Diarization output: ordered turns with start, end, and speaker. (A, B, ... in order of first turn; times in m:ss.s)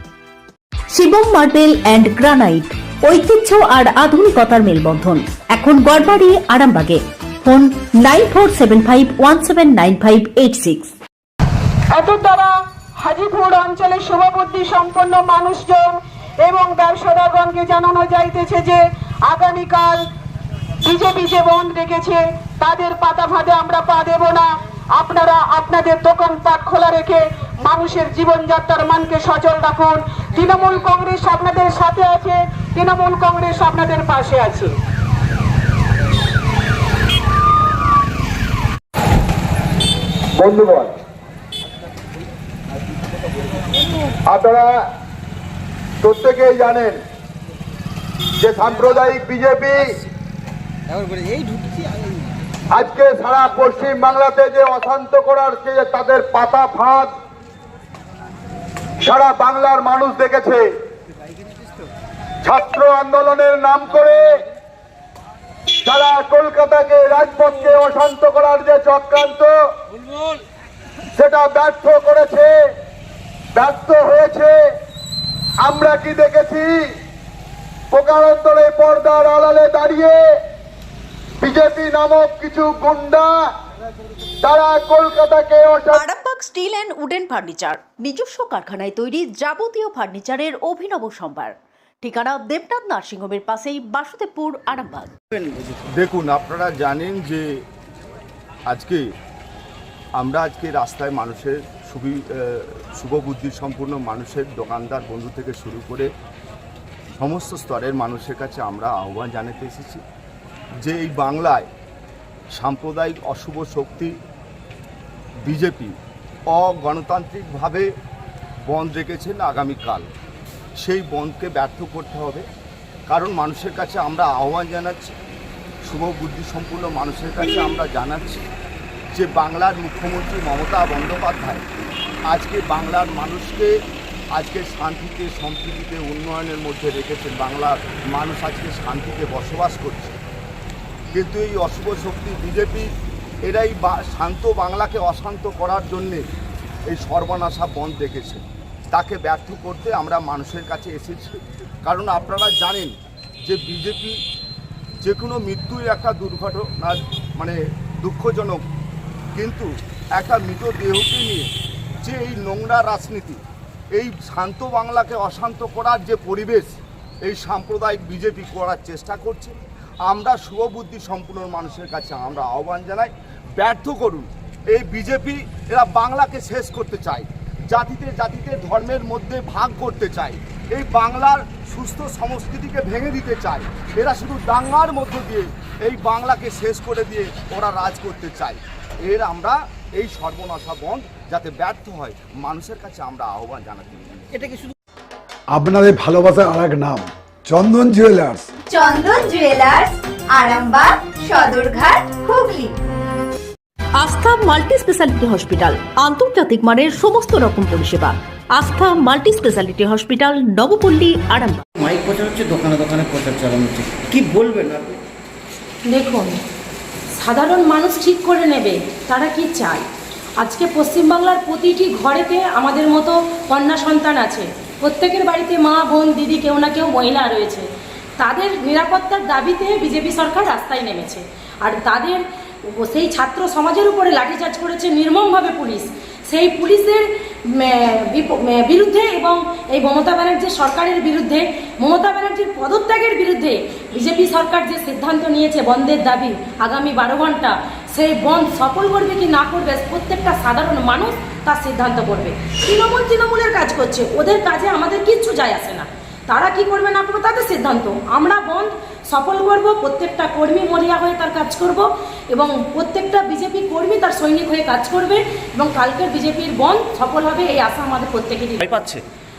0:00.9-0:10.9 A
0:11.9-0:20.0 B
0:20.8-0:34.7 B
0:40.4-0:40.9 C
0:44.2-0:44.7 C
0:46.0-0:47.0 C
0:48.4-0:49.8 C
0:52.7-0:57.1 C
0:59.0-1:00.6 C
1:02.4-1:04.2 C
1:05.8-1:09.5 C
1:11.2-1:12.5 C
1:13.5-1:14.6 C
1:15.6-1:16.7 C
1:17.9-1:20.2 C
1:21.4-1:23.3 C
1:24.4-1:26.0 C
1:25.9-1:35.1 A
1:36.0-1:37.4 D
1:38.7-1:39.0 D
1:40.2-1:42.2 D
1:43.0-1:46.1 D
1:47.2-1:50.0 D
1:50.8-1:51.7 D
1:52.5-1:54.1 D
1:55.5-1:55.9 D
1:56.5-1:57.9 D
1:58.7-2:00.1 D
2:00.8-2:02.4 D
2:03.1-2:05.1 D
2:05.9-2:08.5 D
2:09.1-2:11.6 D
2:12.3-2:13.7 D
2:14.4-2:20.2 D
2:21.1-2:22.9 D
2:23.5-2:26.2 D
2:26.9-2:31.3 D
2:31.8-2:32.9 D
2:33.5-2:34.1 D
2:35.0-2:38.6 D
2:39.4-2:39.7 D
2:40.2-2:41.5 D
2:42.0-2:43.4 D
2:43.9-2:46.7 D
2:47.2-2:49.5 D
2:50.1-3:14.2 D
3:15.5-3:18.5 E
3:18.7-3:22.7 F
3:24.0-3:31.6 A
3:31.8-3:34.9 G
3:35.9-3:36.3 H
3:37.2-3:39.8 H
3:40.4-3:47.6 H
3:48.2-3:52.2 H
3:52.8-4:28.8 H